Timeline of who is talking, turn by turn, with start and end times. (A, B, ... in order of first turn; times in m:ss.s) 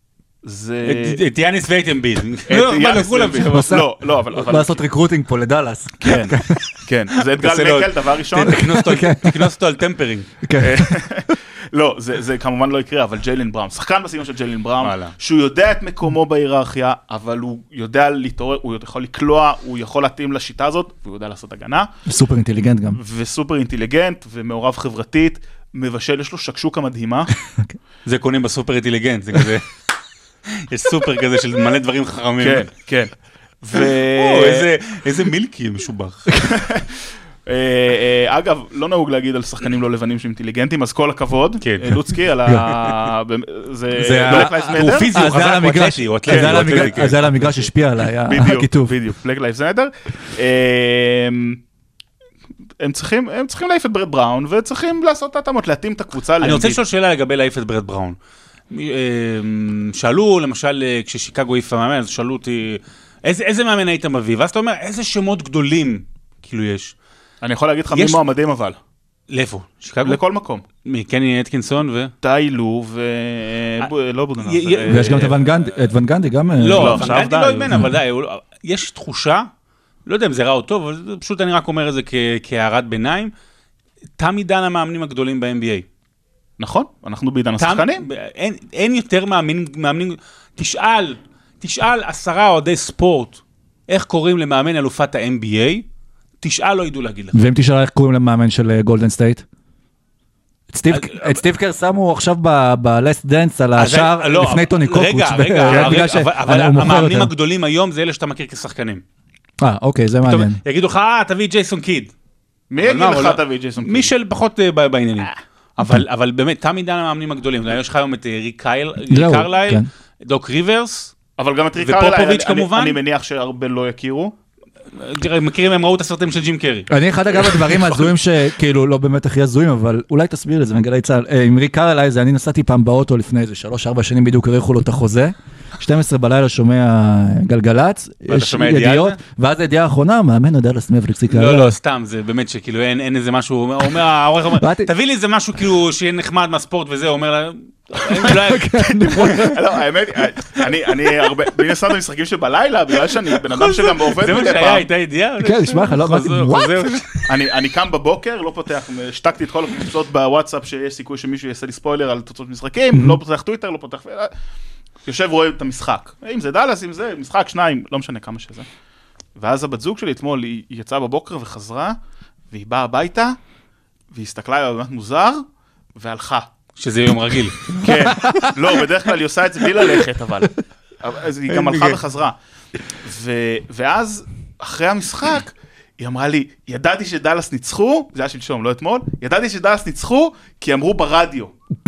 0:00.4-0:01.2 A
0:00.8-0:03.5 B
0:02.5-0:04.8 A
0:03.5-0:06.6 C
0:06.0-0:08.6 A
0:07.3-0:10.3 B
0:08.4-0:09.5 C
0:10.4-0:11.0 C
0:10.6-0:21.9 A
0:14.8-0:15.1 B
0:22.1-0:23.0 C
0:22.9-0:27.3 A
0:28.0-0:29.7 B
0:30.5-0:32.7 B
0:32.4-0:34.7 A
0:33.7-0:36.5 B
0:36.5-0:45.1 A
0:41.6-0:42.0 B
0:43.9-0:49.0 C
0:44.3-0:47.2 B
0:46.3-0:47.7 A
0:48.2-0:51.6 A
0:52.8-0:56.8 A
0:56.4-0:58.2 B
0:58.7-1:06.9 B
1:07.4-1:08.8 A
1:07.9-1:08.2 B
1:09.3-1:10.2 B
1:10.0-1:10.6 A
1:10.8-1:12.1 B
1:12.2-1:15.4 A
1:14.4-1:15.8 B
1:14.9-1:17.1 C
1:16.6-1:19.5 B
1:16.7-1:17.7 A
1:20.1-1:23.3 B
1:24.2-1:25.9 B
1:26.6-1:28.0 A
1:27.6-1:35.8 B
1:36.4-1:37.4 B
1:37.3-1:39.4 C
1:40.7-1:47.3 C
1:40.9-1:41.4 B
1:43.8-1:49.0 B
1:45.7-1:45.9 A
1:49.6-1:50.6 C
1:50.2-1:52.1 B
1:52.7-1:54.1 A
1:52.8-2:01.1 B
1:59.1-1:59.9 C
2:01.4-2:04.3 A
2:01.8-2:03.0 B
2:04.9-2:08.0 B
2:06.9-2:21.8 C
2:18.3-2:19.2 B
2:21.3-2:29.5 B
2:24.6-2:24.9 C
2:28.2-2:29.6 C
2:29.3-2:34.9 A
2:33.5-2:37.3 B
2:35.4-2:37.0 C
2:37.3-2:44.3 A
2:42.9-2:43.2 C
2:45.1-2:48.7 A
2:49.4-2:52.0 A
2:52.5-2:53.4 A
2:54.1-2:55.4 A
2:56.0-2:56.5 A
2:56.8-2:57.8 B
2:57.8-3:02.4 A
2:58.2-2:58.5 C
3:01.5-3:02.0 B
3:03.0-3:11.5 A